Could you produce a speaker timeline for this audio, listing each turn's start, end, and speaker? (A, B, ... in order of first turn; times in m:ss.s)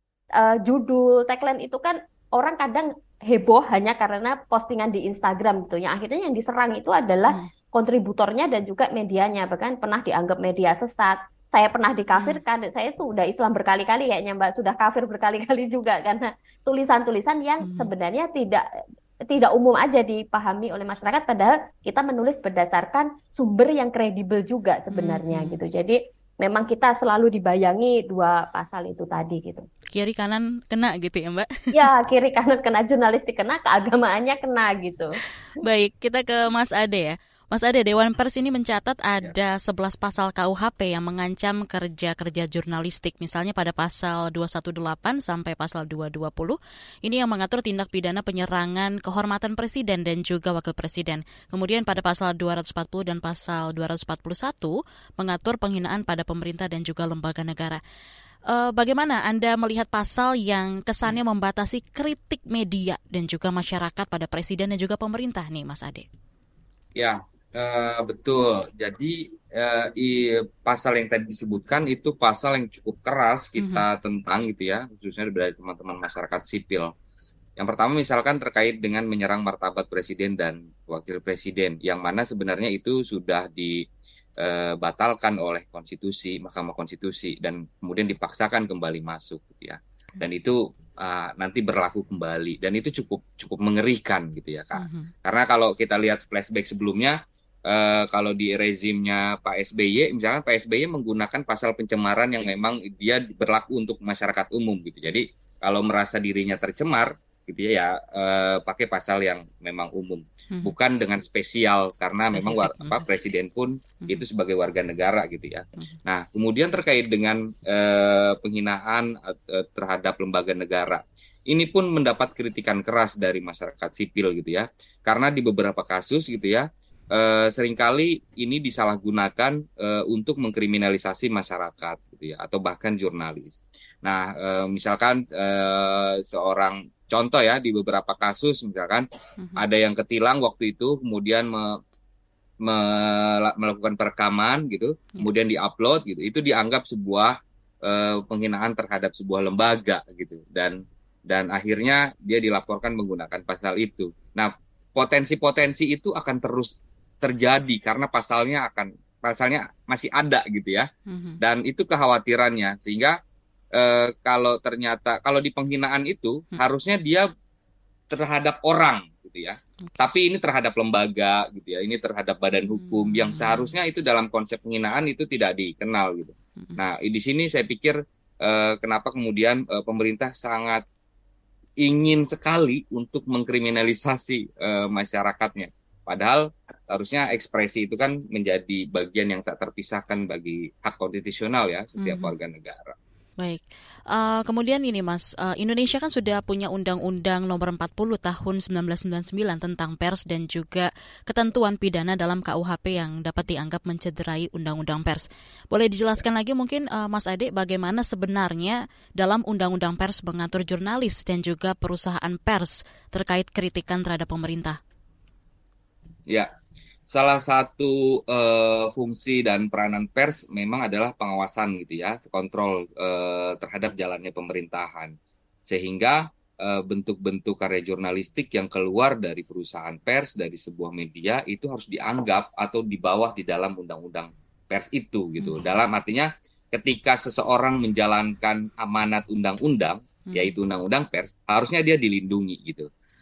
0:00.4-0:18.6 A
0:12.1-0:12.4 B
0:17.6-0:17.9 B
0:19.3-0:29.7 A
0:24.9-0:25.6 B
0:29.9-0:31.8 B
0:31.8-0:35.1 A
0:35.6-0:57.8 B
0:58.5-1:06.1 B
1:07.0-1:16.9 C
1:13.6-1:13.8 B
1:17.6-1:23.8 C
1:24.4-2:19.1 C
1:34.8-1:35.1 B
1:52.2-1:53.1 B
2:19.6-2:21.8 C
2:22.6-2:27.3 C
2:27.8-2:40.9 C
2:41.1-2:41.4 B
2:41.4-2:43.2 C
2:43.8-2:47.3 C
2:48.1-3:00.8 C
2:52.7-2:53.7 B
3:01.8-3:13.0 C
3:12.0-3:12.3 B
3:13.4-3:34.8 B
3:37.1-3:45.2 C
3:45.7-4:02.9 C
4:00.3-4:00.6 B